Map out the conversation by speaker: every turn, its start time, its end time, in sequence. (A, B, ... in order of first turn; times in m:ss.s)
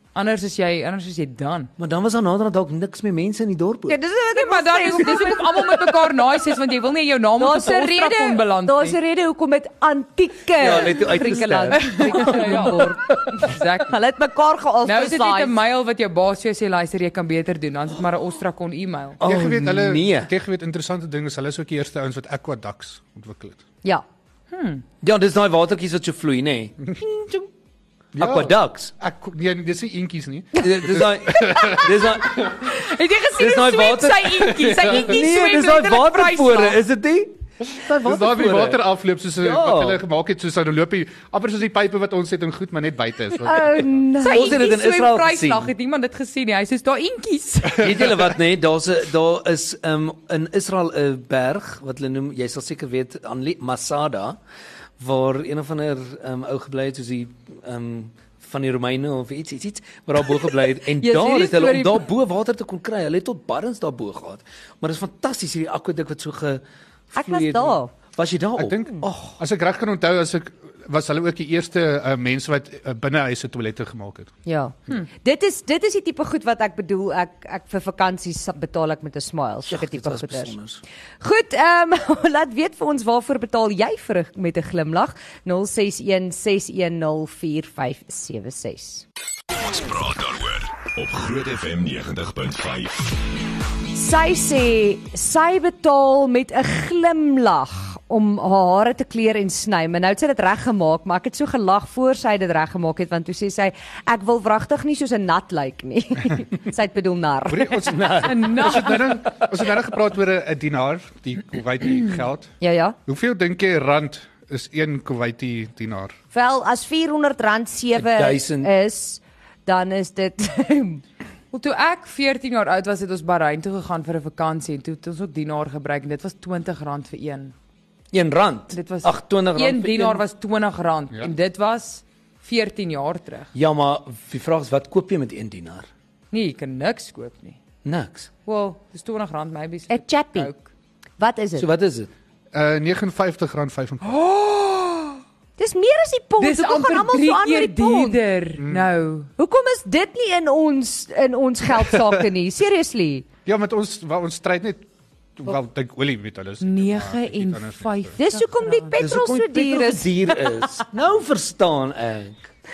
0:00.1-0:01.7 A
0:01.8-0:04.0 B
0:03.9-0:05.9 C
0:04.3-0:09.0 A
0:07.4-0:15.6 C
0:10.6-0:13.4 B
0:11.7-0:13.9 A
0:14.8-0:19.2 A
0:19.2-0:20.3 B
0:19.2-0:23.6 D
0:24.5-0:24.8 A
0:25.0-0:26.9 B
0:28.2-0:28.9 B
0:28.2-0:32.6 D
0:30.6-0:32.7 B
0:32.6-0:36.8 A
0:33.4-0:38.8 B
0:34.7-0:35.2 D
0:37.8-0:44.0 D
0:39.4-0:40.0 B
0:43.4-0:44.6 C
0:44.2-0:48.0 A
0:44.2-0:45.7 B
0:47.7-0:54.4 B
0:55.0-1:09.4 B
1:01.0-1:02.1 C
1:07.1-1:07.9 C
1:08.6-1:14.3 D
1:14.4-1:20.6 C
1:19.7-1:20.8 B
1:21.2-1:29.0 C
1:29.5-1:33.2 E
1:33.9-1:47.9 C
1:47.5-1:52.5 D
1:47.7-1:49.2 B
1:48.2-1:49.2 A
1:52.6-1:53.0 C
1:53.0-1:56.1 D
1:56.3-2:01.0 C
1:58.0-1:58.7 B
2:01.5-2:07.5 A
2:08.1-2:10.2 B
2:08.7-2:13.5 A
2:13.5-2:15.9 B
2:16.3-2:17.6 A
2:17.8-2:18.3 B
2:18.4-2:20.7 A
2:19.9-2:20.5 C
2:21.2-2:21.7 C
2:21.6-2:22.1 B
2:22.5-2:24.2 D
2:24.1-2:25.2 A
2:25.6-2:28.2 C
2:26.4-2:29.3 A
2:28.6-2:28.9 D
2:29.4-2:33.3 C
2:31.8-2:32.2 D
2:33.4-2:38.1 D
2:36.6-2:39.0 A
2:38.2-2:40.7 C
2:39.0-2:42.4 B